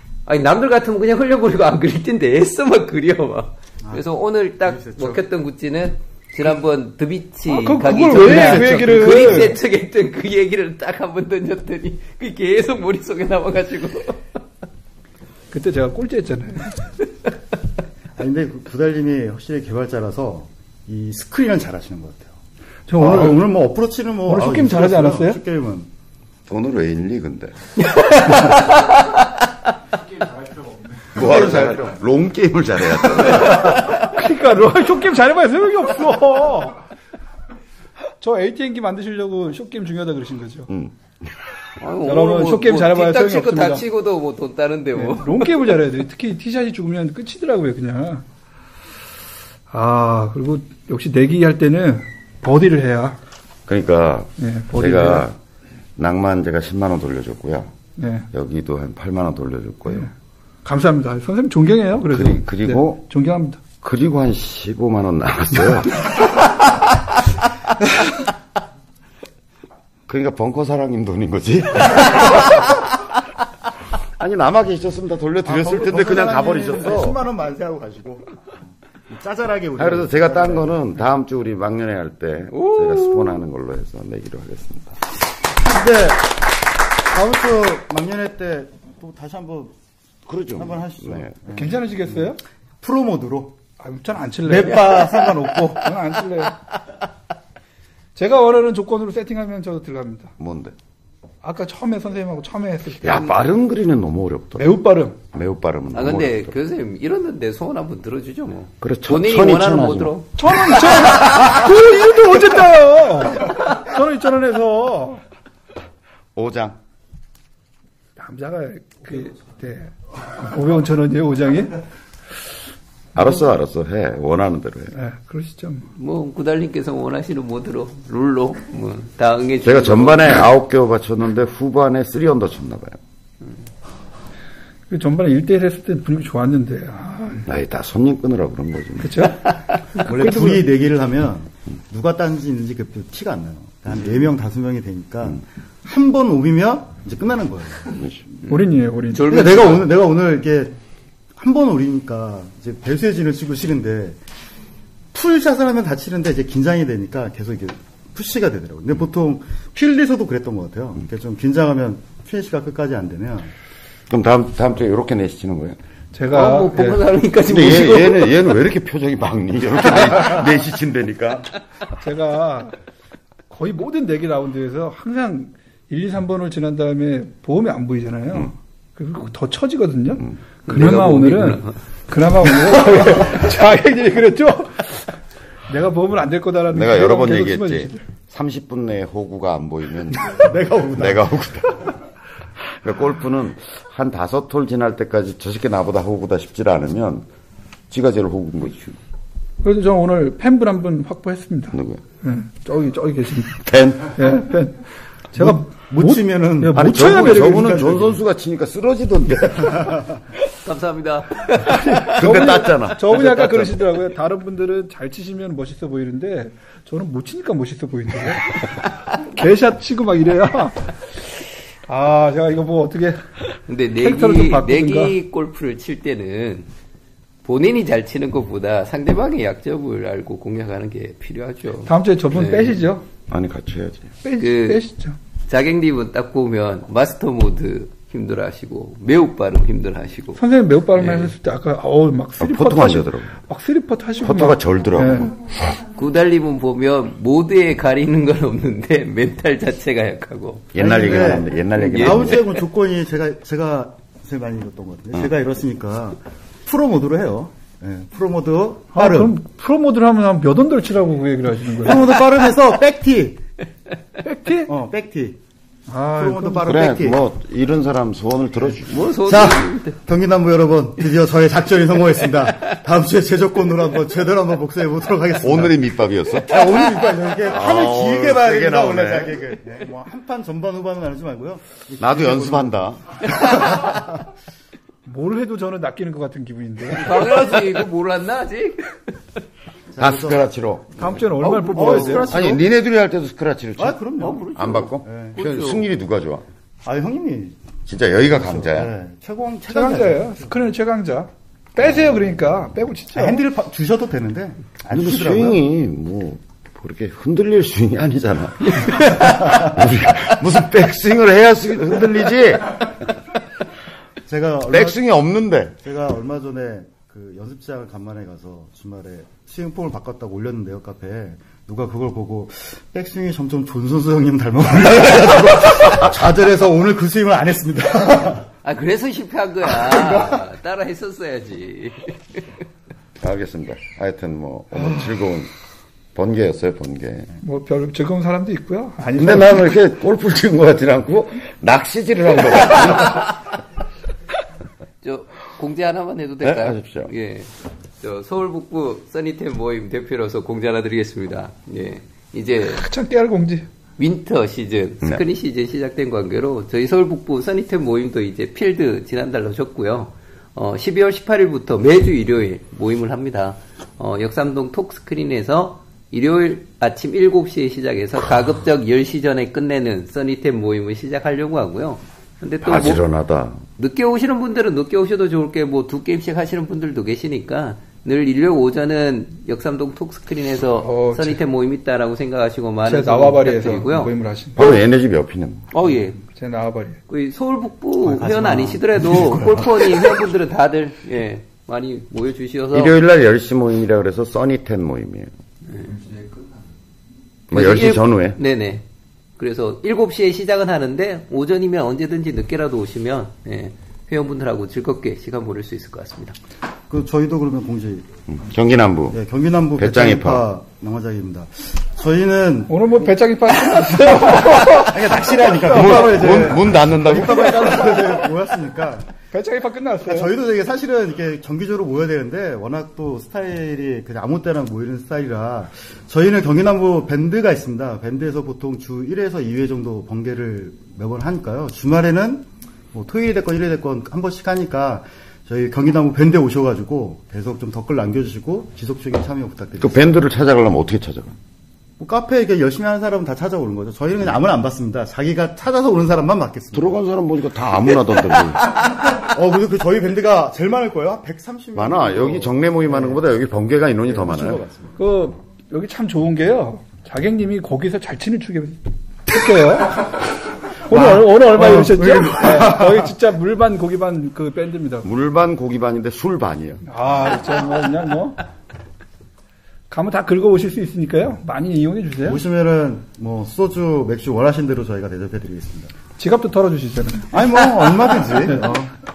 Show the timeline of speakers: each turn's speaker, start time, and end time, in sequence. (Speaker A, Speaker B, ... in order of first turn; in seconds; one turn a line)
Speaker A: 0.2-14.2
Speaker B: 4.6-5.2
Speaker C: 7.5-9.6
Speaker C: 15.5-16.8
Speaker B: 18.1-22.3
Speaker C: 22.9-23.4
Speaker B: 22.9-25.9
Speaker C: 24.2-25.4
Speaker D: 26.5-27.5
Speaker A: 27.9-29.2
Speaker D: 31.1-33.7
Speaker C: 33.6-36.8
Speaker C: 38.2-40.7
Speaker A: 41.8-45.7
Speaker C: 42.0-43.8
Speaker C: 44.9-48.2
Speaker C: 49.7-53.2
Speaker D: 53.7-55.4
Speaker C: 54.4-55.3
Speaker D: 56.0-57.7
Speaker C: 58.0-58.3
Speaker D: 58.3-60.1
Speaker C: 60.6-63.6
Speaker D: 62.1-63.0
Speaker D: 63.8-66.1
Speaker D: 70.1-72.6
Speaker D: 74.2-77.2
Speaker B: 75.4-78.3
Speaker B: 79.1-80.7
Speaker D: 79.8-85.0
Speaker A: 82.5-83.4
Speaker B: 85.6-86.4
Speaker B: 87.1-89.7
Speaker D: 90.3-91.3
Speaker B: 90.5-93.5
Speaker C: 91.5-92.4
Speaker C: 93.8-96.5
Speaker B: 94.4-95.9
Speaker C: 98.1-100.3
Speaker D: 100.4-100.7
Speaker C: 101.4-103.4
Speaker D: 103.0-104.7
Speaker C: 104.6-105.2
Speaker D: 105.3-106.5
Speaker A: 105.9-110.4
Speaker D: 108.8-110.1
Speaker C: 110.4-115.2
Speaker D: 116.3-116.8
Speaker C: 118.2-121.8
Speaker D: 123.1-125.0
Speaker C: 124.9-125.8
Speaker A: 125.9-130.4
Speaker D: 129.6-133.0
Speaker C: 134.9-137.4
Speaker D: 137.4-139.4
Speaker C: 139.0-139.5
Speaker B: 140.0-148.0
Speaker C: 140.0-140.6
Speaker C: 148.5-149.3
Speaker A: 149.1-149.9
Speaker B: 149.2-150.7
Speaker B: 151.3-154.2
Speaker B: 155.1-163.5
Speaker D: 164.1-165.8
Speaker C: 166.1-167.0
Speaker A: 166.3-168.3
Speaker D: 167.4-171.5
Speaker C: 172.0-172.7
Speaker C: 173.5-185.1
Speaker A: 180.7-181.7
Speaker C: 185.7-188.0
Speaker D: 186.7-191.9
Speaker B: 190.3-191.3
Speaker D: 192.7-197.3
Speaker D: 197.9-199.0
Speaker C: 199.6-203.6
Speaker D: 201.7-202.0
Speaker D: 203.4-204.3
Speaker C: 204.1-207.8
Speaker B: 205.4-208.2
Speaker D: 206.7-209.9
Speaker A: 210.6-212.3
Speaker C: 211.6-220.9
Speaker D: 212.1-213.7
Speaker C: 221.9-223.4
Speaker A: 223.7-226.7
Speaker C: 224.0-225.2
Speaker A: 227.4-232.8
Speaker C: 231.8-233.1
Speaker D: 233.3-234.1
Speaker C: 234.2-235.2
Speaker A: 234.4-234.8
Speaker A: 235.5-240.4
Speaker C: 240.3-245.3
Speaker A: 240.9-241.3
Speaker D: 242.4-243.3
Speaker D: 244.2-245.5
Speaker A: 245.9-250.7
Speaker D: 250.7-252.4
Speaker B: 250.8-259.3
Speaker A: 251.8-252.6
Speaker C: 258.9-262.0
Speaker B: 261.8-263.4
Speaker C: 264.2-264.7
Speaker B: 264.7-265.4
Speaker C: 265.9-266.7
Speaker B: 266.1-267.2
Speaker D: 266.7-269.1
Speaker B: 268.6-275.7
Speaker A: 268.9-269.9
Speaker D: 275.4-276.6
Speaker B: 276.3-284.0
Speaker D: 277.5-279.4
Speaker D: 282.0-283.1
Speaker C: 285.1-287.6
Speaker A: 286.9-289.0
Speaker B: 289.9-290.4
Speaker D: 290.0-296.4
Speaker C: 290.9-292.6
Speaker A: 291.5-291.9
Speaker B: 291.6-292.5
Speaker B: 293.8-295.4
Speaker A: 294.2-295.9
Speaker B: 296.8-297.6
Speaker D: 297.9-298.9
Speaker B: 298.3-300.5
Speaker C: 299.7-303.4
Speaker B: 303.1-305.6
Speaker D: 304.9-313.0
Speaker A: 308.8-309.1
Speaker B: 314.2-315.0
Speaker D: 314.7-315.8
Speaker B: 315.8-328.4
Speaker A: 328.6-332.1
Speaker D: 333.2-335.5
Speaker D: 336.1-337.3
Speaker C: 337.4-339.7
Speaker D: 339.1-343.4
Speaker A: 345.0-352.9
Speaker D: 346.4-347.1
Speaker C: 352.6-353.6
Speaker A: 354.0-373.0
Speaker D: 372.6-373.6
Speaker A: 373.8-384.1
Speaker C: 380.8-381.4
Speaker C: 382.8-384.8
Speaker D: 384.6-385.6
Speaker A: 385.7-386.2
Speaker C: 386.2-387.0
Speaker A: 387.1-392.9
Speaker B: 388.0-390.2
Speaker D: 392.7-395.3
Speaker D: 397.5-398.4
Speaker A: 397.5-398.8
Speaker A: 399.4-406.4
Speaker B: 406.9-408.0
Speaker D: 408.3-409.2
Speaker B: 409.1-412.8
Speaker D: 409.8-410.4
Speaker C: 412.7-416.3
Speaker B: 414.2-419.1
Speaker D: 415.7-418.0
Speaker C: 419.3-420.3
Speaker B: 420.0-440.2
Speaker D: 439.8-441.3
Speaker B: 442.0-447.0
Speaker D: 446.7-448.7
Speaker B: 448.7-453.2
Speaker D: 451.7-454.6
Speaker B: 454.0-454.9
Speaker C: 454.9-460.3
Speaker C: 460.9-465.1
Speaker B: 460.9-463.1
Speaker D: 465.0-466.9
Speaker C: 466.9-468.4
Speaker C: 469.9-472.4
Speaker B: 472.2-475.9
Speaker C: 476.2-477.3
Speaker B: 477.3-478.9